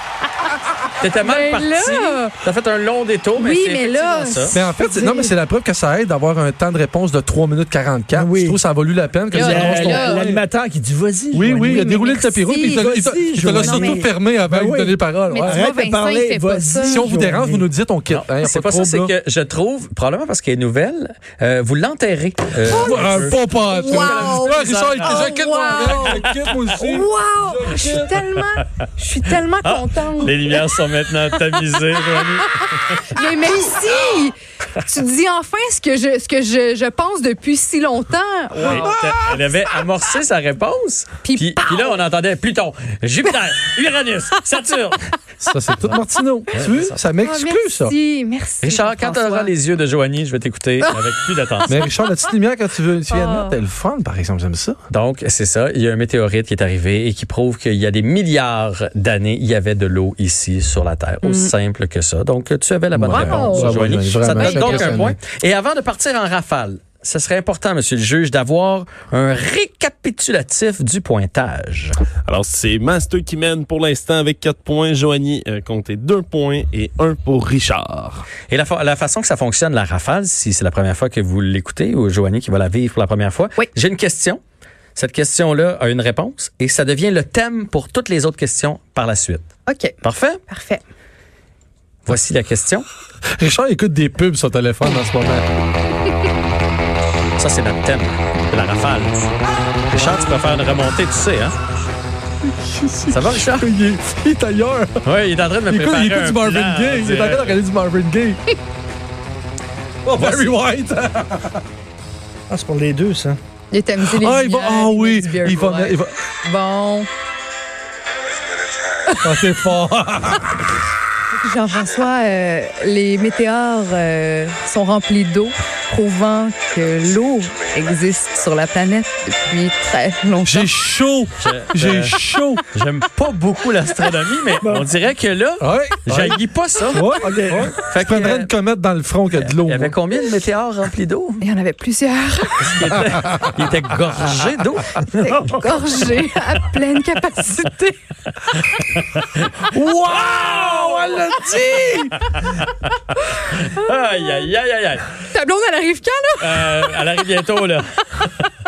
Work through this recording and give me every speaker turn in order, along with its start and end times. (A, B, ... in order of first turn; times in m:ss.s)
0:01.0-0:04.6 A
0:01.2-0:02.3 B
0:03.4-0:04.6 B
0:04.5-0:10.4 C
0:08.1-0:08.6 D
0:09.3-0:10.3 B
0:09.3-0:11.9 D
0:11.3-0:15.6 C
0:11.6-0:13.0 B
0:12.8-0:17.6 D
0:13.5-0:14.0 B
0:15.3-0:17.0 B
0:16.8-0:19.1 C
0:18.1-0:25.2 A
0:22.6-0:28.2 C
0:22.7-0:23.1 B
0:23.7-0:26.2 B
0:25.9-0:26.6 A
0:26.8-0:30.4 B
0:29.6-0:33.1 A
0:33.0-0:38.9 B
0:38.6-0:45.0 A
0:38.6-0:39.1 C
0:41.2-0:42.0 B
0:45.4-0:47.9 C
0:46.5-0:47.0 A
0:47.2-0:49.5 B
0:48.6-0:51.8 A
0:51.7-0:54.8 C
0:53.1-0:53.5 B
0:54.9-1:12.0 A
1:01.2-1:01.5 B
1:02.9-1:05.2 C
1:03.1-1:03.8 B
1:04.4-1:05.0 B
1:12.3-1:18.2 E
1:18.5-1:24.4 A
1:25.0-1:29.5 A
1:29.6-1:30.0 B
1:30.0-1:30.4 A
1:30.5-1:30.8 B
1:32.0-1:32.9 A
1:33.4-1:35.5 C
1:37.4-1:39.3 A
1:39.9-1:41.5 A
1:42.4-1:45.1 C
1:43.1-1:43.6 A
1:45.0-1:47.6 A
1:45.7-1:48.4 C
1:50.0-1:51.6 C
1:50.2-1:50.5 A
1:52.5-1:53.4 D
1:53.7-1:57.1 B
1:54.0-1:56.1 C
1:59.2-2:00.5 C
2:01.4-2:10.7 B
2:10.4-2:12.6 C
2:11.4-2:17.1 A
2:14.6-2:14.9 D
2:15.6-2:16.4 C
2:16.9-2:17.8 D
2:17.0-2:20.0 C
2:17.8-2:18.5 A
2:19.4-2:21.4 A
2:21.4-2:22.8 B
2:22.6-2:25.0 A
2:25.0-2:28.0 B
2:28.8-2:31.3 A
2:29.7-2:32.3 C
2:32.3-2:32.7 A
2:33.5-2:35.2 A
2:35.3-2:36.9 B
2:36.4-2:38.5 A